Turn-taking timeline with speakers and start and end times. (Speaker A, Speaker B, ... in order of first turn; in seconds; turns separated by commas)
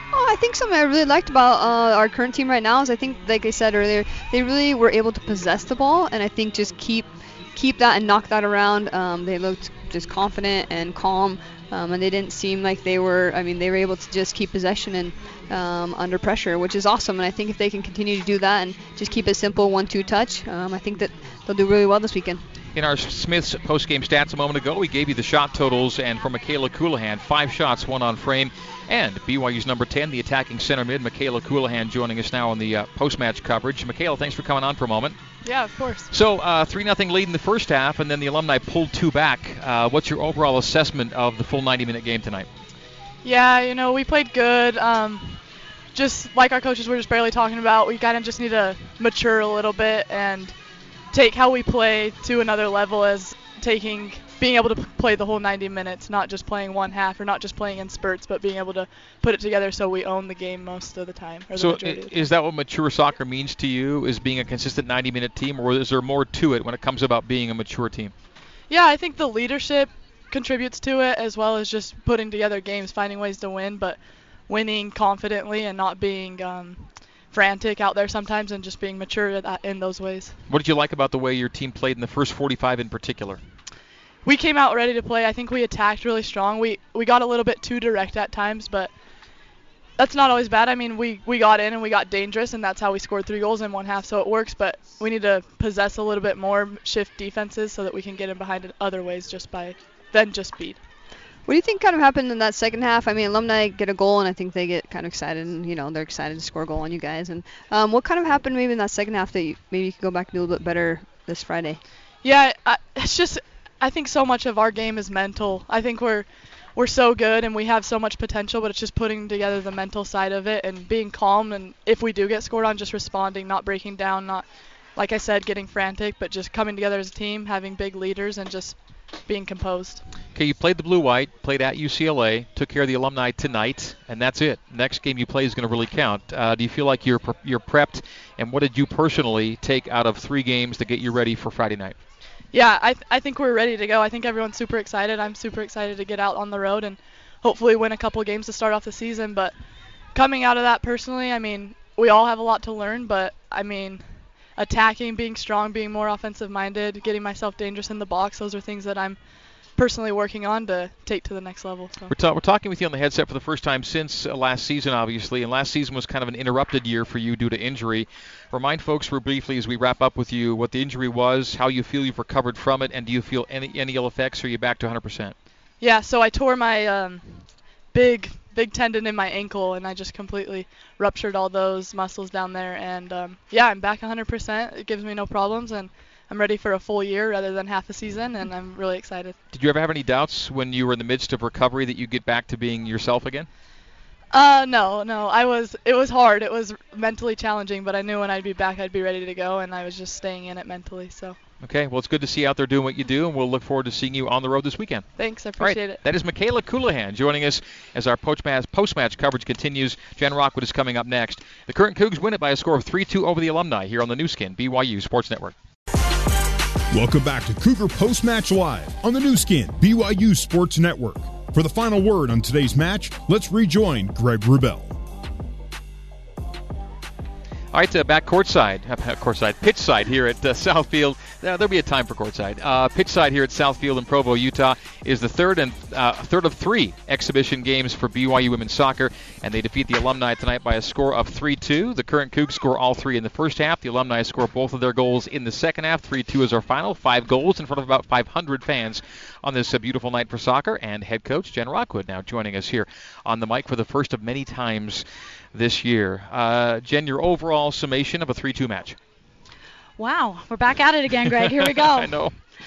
Speaker A: 0.1-22.4, Speaker B: 22.7-35.2, Speaker C: 35.4-36.1, Speaker B: 36.1-42.5, Speaker C: 43.2-45.4, Speaker C: 45.9-50.5, Speaker C: 51.1-62.1, Speaker B: 61.5-68.1, Speaker C: 68.7-74.0, Speaker C: 74.5-80.3, Speaker B: 80.5-83.4, Speaker C: 84.2-88.9, Speaker C: 90.0-100.8, Speaker A: 101.5-111.8, Speaker C: 112.2-130.1, Speaker B: 130.3-141.9, Speaker C: 142.5-149.5, Speaker C: 150.1-159.2, Speaker C: 159.8-162.1, Speaker B: 162.1-175.3, Speaker C: 175.8-189.3, Speaker B: 189.5-193.5, Speaker C: 194.3-201.4, Speaker B: 201.6-215.5, Speaker C: 205.2-206.0, Speaker D: 216.9-225.0, Speaker B: 227.7-259.0, Speaker E: 260.0-262.2, Speaker B: 261.6-262.3